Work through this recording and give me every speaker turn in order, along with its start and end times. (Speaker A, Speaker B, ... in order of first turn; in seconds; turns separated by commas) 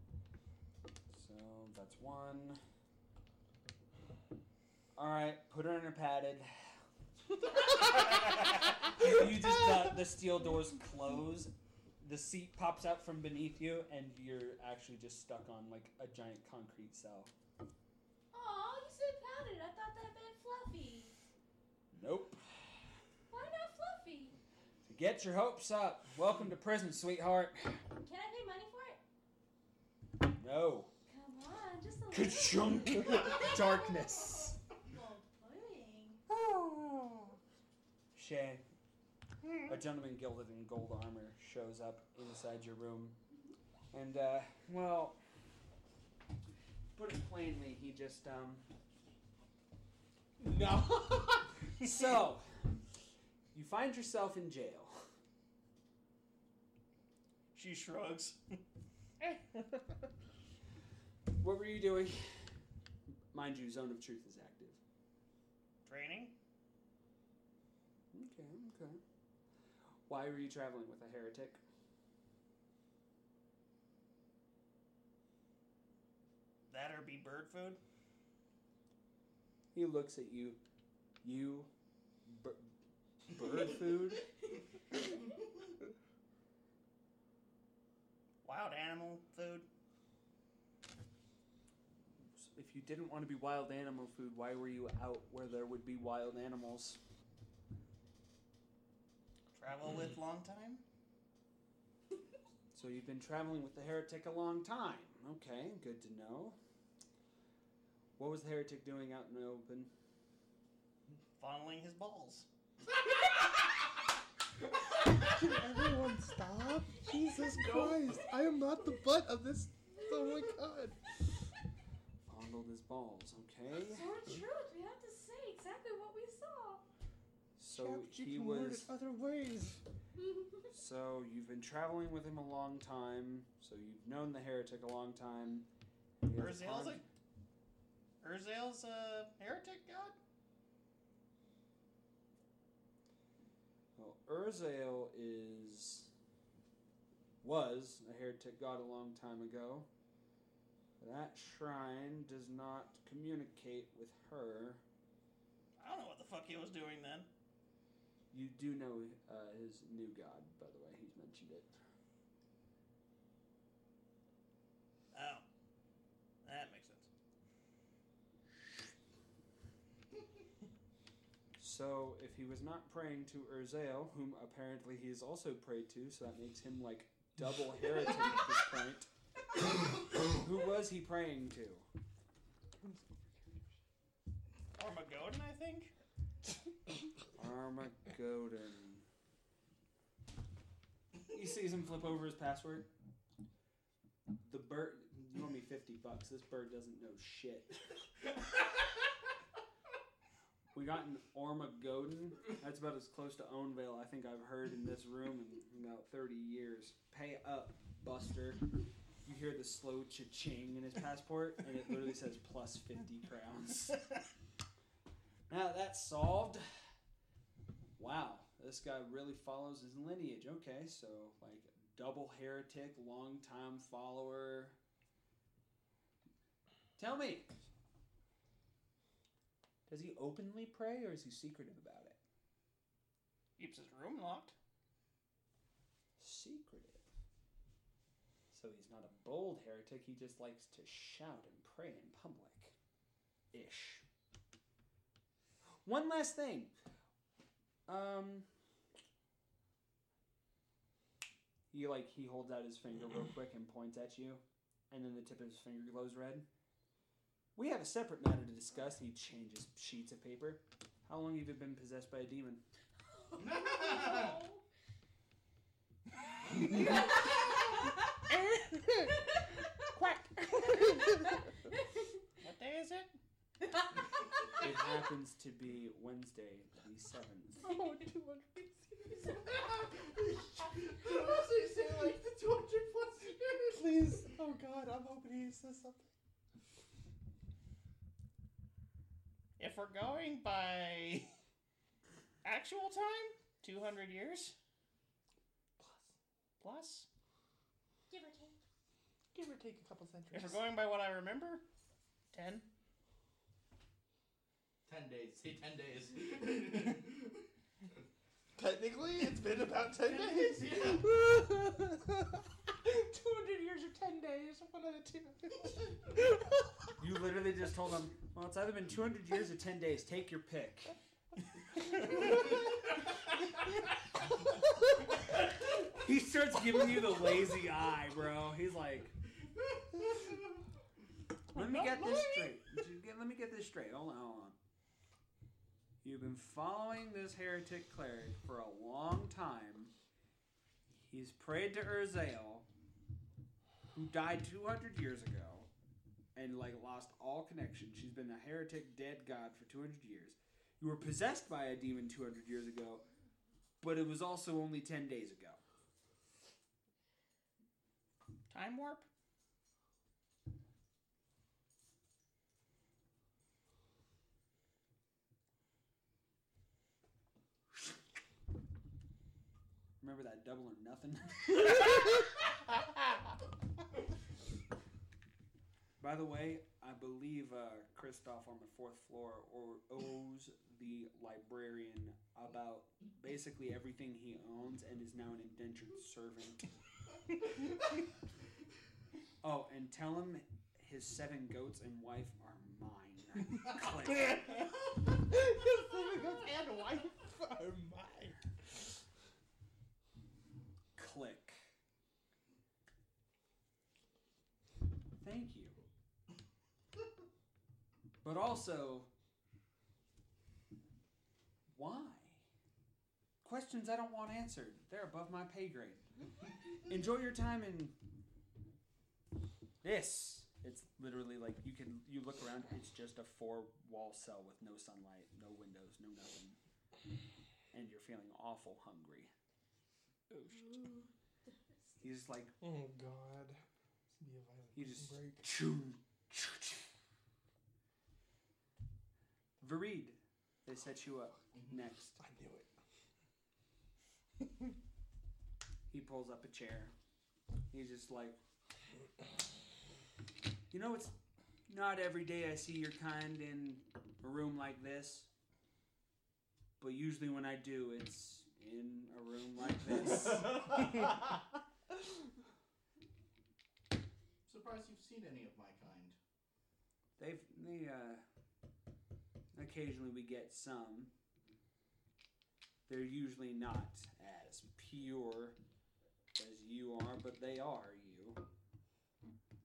Speaker A: 1.1-2.6, Speaker A: 5.0-6.8, Speaker A: 7.6-17.3, Speaker B: 18.3-21.1, Speaker A: 21.9-22.9, Speaker B: 23.3-24.4, Speaker A: 24.9-27.9, Speaker B: 27.9-29.0, Speaker A: 30.4-30.9, Speaker B: 31.1-36.2, Speaker A: 32.1-34.6, Speaker C: 36.3-37.0, Speaker A: 38.1-38.6, Speaker A: 39.7-43.2, Speaker A: 43.9-45.2, Speaker A: 47.0-48.7, Speaker D: 50.4-51.6, Speaker A: 51.8-52.8, Speaker A: 53.5-55.1, Speaker C: 57.5-58.6, Speaker A: 61.4-62.6, Speaker A: 63.3-64.8, Speaker C: 65.8-66.3, Speaker A: 68.1-69.0, Speaker A: 70.1-71.6, Speaker C: 76.7-77.8, Speaker A: 79.7-80.6, Speaker A: 81.2-81.7, Speaker A: 82.2-82.7, Speaker A: 83.3-84.3, Speaker C: 88.4-89.7, Speaker A: 92.3-97.0, Speaker C: 99.6-100.8, Speaker A: 102.7-106.6, Speaker A: 108.2-109.9, Speaker C: 111.4-112.5, Speaker D: 115.2-121.1, Speaker B: 117.0-118.0, Speaker A: 122.3-124.1, Speaker B: 123.9-126.8, Speaker A: 127.6-128.9, Speaker D: 127.7-129.8, Speaker A: 130.7-135.7, Speaker A: 136.2-137.0, Speaker C: 136.3-137.0, Speaker C: 138.2-140.2, Speaker A: 144.0-146.1, Speaker A: 147.4-149.9, Speaker A: 151.0-154.8, Speaker C: 155.8-157.3, Speaker A: 158.3-161.8, Speaker C: 165.1-165.4, Speaker C: 166.4-167.1, Speaker A: 171.6-179.1, Speaker A: 180.2-181.9, Speaker C: 184.7-185.9, Speaker A: 187.3-189.1, Speaker A: 191.3-192.9, Speaker A: 194.4-198.3, Speaker A: 200.7-208.7, Speaker A: 209.2-214.1, Speaker A: 215.5-216.9, Speaker A: 218.0-224.8, Speaker A: 227.0-227.6, Speaker A: 229.9-232.2, Speaker C: 233.6-234.6, Speaker A: 236.2-237.0, Speaker A: 238.5-242.8, Speaker A: 243.5-244.1, Speaker A: 245.8-246.7, Speaker A: 247.9-248.5, Speaker A: 251.7-256.5, Speaker A: 257.6-262.6, Speaker B: 263.2-264.6, Speaker E: 263.4-264.4, Speaker B: 266.7-268.1, Speaker D: 268.3-269.1, Speaker C: 270.0-271.0, Speaker D: 270.3-271.2, Speaker C: 272.4-273.1, Speaker A: 274.6-277.7, Speaker D: 277.6-279.9, Speaker E: 279.5-283.8, Speaker D: 283.7-286.1, Speaker C: 289.6-291.3, Speaker C: 292.4-294.6, Speaker D: 295.8-296.1, Speaker C: 296.6-297.1, Speaker B: 298.1-298.6, Speaker D: 299.3-300.6, Speaker C: 300.3-301.6, Speaker C: 302.3-302.7, Speaker E: 304.9-307.5, Speaker D: 308.6-316.6, Speaker E: 310.1-311.1, Speaker A: 317.0-320.9, Speaker A: 325.5-329.2, Speaker A: 331.5-334.6, Speaker A: 336.0-339.9, Speaker A: 341.1-342.7, Speaker A: 343.9-345.7, Speaker A: 346.4-353.1, Speaker A: 353.8-355.6, Speaker C: 358.5-359.1, Speaker A: 370.0-372.3, Speaker A: 376.0-386.7, Speaker A: 389.4-394.7, Speaker C: 394.2-394.5, Speaker D: 395.1-398.4, Speaker A: 401.0-401.6, Speaker A: 405.2-405.8, Speaker A: 408.2-409.1, Speaker A: 411.7-412.4, Speaker A: 413.4-416.1, Speaker A: 416.9-418.0, Speaker A: 419.8-426.6, Speaker A: 427.7-429.3, Speaker B: 430.6-431.1, Speaker A: 432.0-432.5, Speaker D: 432.6-433.6, Speaker D: 434.2-435.5, Speaker A: 434.7-436.9, Speaker A: 439.6-442.2, Speaker D: 442.2-442.7, Speaker A: 445.9-446.9, Speaker A: 447.7-448.4, Speaker A: 450.7-451.2, Speaker A: 451.7-455.3, Speaker A: 456.8-461.2, Speaker E: 464.5-466.2, Speaker A: 467.2-468.2, Speaker A: 469.5-471.1, Speaker A: 472.9-475.6, Speaker A: 476.4-478.4